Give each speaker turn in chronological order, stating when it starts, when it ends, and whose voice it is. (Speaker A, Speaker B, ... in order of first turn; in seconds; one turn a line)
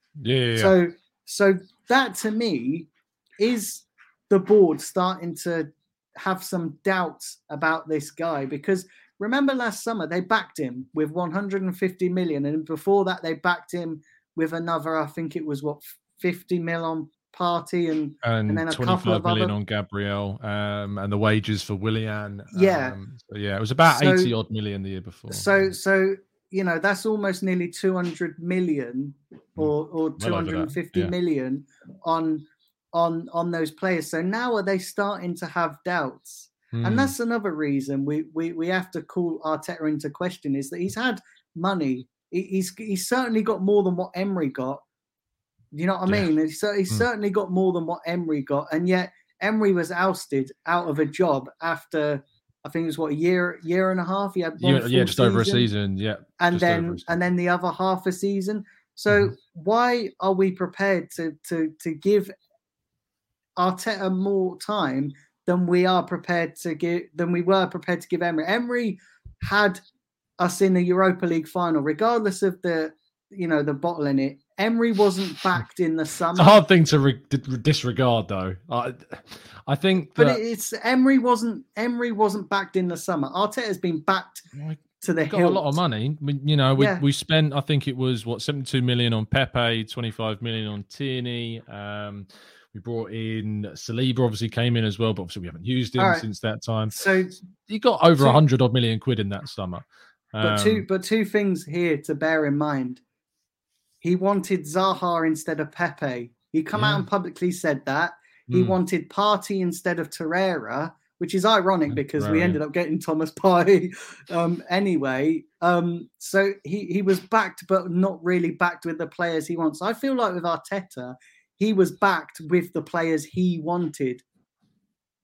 Speaker A: 0.2-0.7
Speaker B: 0.6-19.5
Speaker A: 18.2-25.6
Speaker B: 22.5-23.0
Speaker B: 23.9-24.3
Speaker B: 25.3-44.8
Speaker A: 29.6-31.1
Speaker A: 36.7-37.1
Speaker B: 45.7-55.7
Speaker A: 54.6-57.2
Speaker B: 56.4-62.3
Speaker B: 63.6-69.8
Speaker B: 70.4-76.6
Speaker A: 76.3-80.4
Speaker B: 80.2-84.5
Speaker A: 84.5-97.1
Speaker B: 85.0-85.6
Speaker B: 86.8-87.0
Speaker B: 96.0-96.2
Speaker B: 96.9-97.3
Speaker A: 97.7-100.8
Speaker B: 100.4-103.0
Speaker B: 104.0-124.2
Speaker A: 106.7-107.0
Speaker A: 108.5-108.8
Speaker A: 111.9-112.6